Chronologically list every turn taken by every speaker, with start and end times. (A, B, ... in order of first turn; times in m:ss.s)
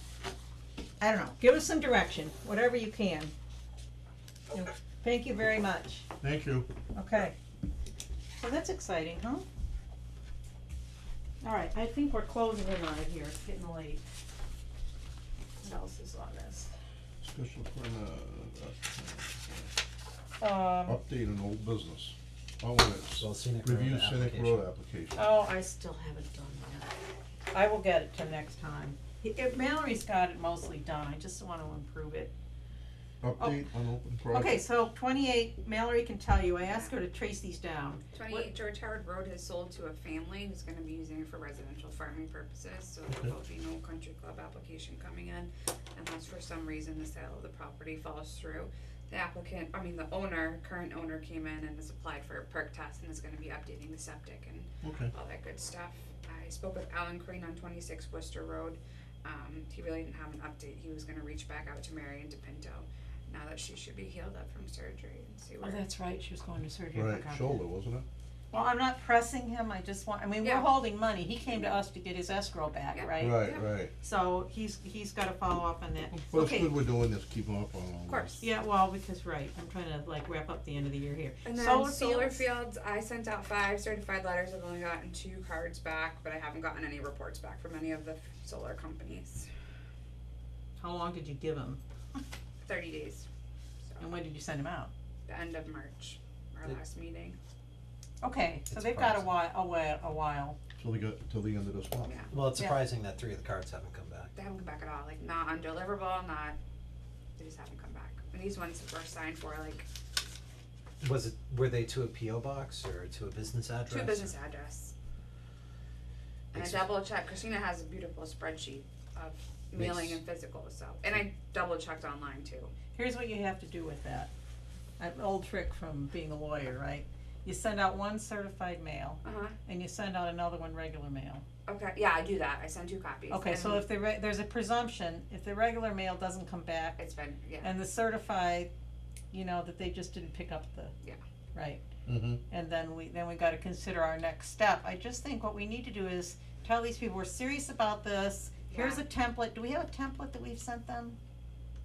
0:01.0-0:03.3 A
0:04.5-0:06.1 A
0:06.2-0:06.7 B
0:06.9-0:07.3 A
0:08.4-0:09.4 A
0:11.4-0:14.0 A
0:15.6-0:16.7 A
0:17.2-0:19.7 B
0:20.4-0:21.0 A
0:20.8-0:25.3 B
0:22.9-0:24.7 C
0:25.1-0:26.9 A
0:27.5-0:32.3 A
0:33.2-0:34.6 B
0:34.3-0:38.5 A
0:36.6-0:37.0 D
0:38.1-1:05.9 D
0:43.1-0:43.3 B
0:54.8-0:55.1 B
1:05.6-1:07.6 A
1:06.9-1:08.0 B
1:08.5-1:16.7 A
1:10.4-1:10.8 D
1:11.4-1:11.8 D
1:12.9-1:13.7 D
1:13.2-1:13.9 B
1:16.1-1:18.4 B
1:18.1-1:18.5 D
1:18.4-1:22.4 A
1:21.4-1:29.5 D
1:30.8-1:31.8 A
1:32.6-1:33.3 D
1:33.8-1:34.2 D
1:34.0-1:34.9 A
1:35.3-1:37.4 D
1:38.2-1:40.6 A
1:38.7-1:39.3 C
1:40.8-1:42.1 B
1:42.0-1:42.4 D
1:42.3-1:44.3 C
1:44.3-1:46.6 D
1:47.4-1:49.8 D
1:51.0-1:54.3 C
1:53.9-1:54.9 D
1:56.5-2:02.7 D
1:56.5-1:56.9 C
1:59.8-2:00.2 C
2:02.9-2:04.3 A
2:05.0-2:11.4 A
2:09.2-2:09.6 D
2:11.7-2:13.9 D
2:13.3-2:17.0 A
2:17.0-2:17.8 D
2:17.6-2:18.7 A
2:19.3-2:20.9 A
2:21.5-2:21.8 A
2:22.0-2:22.4 B
2:22.5-2:31.2 A
2:28.7-2:29.0 D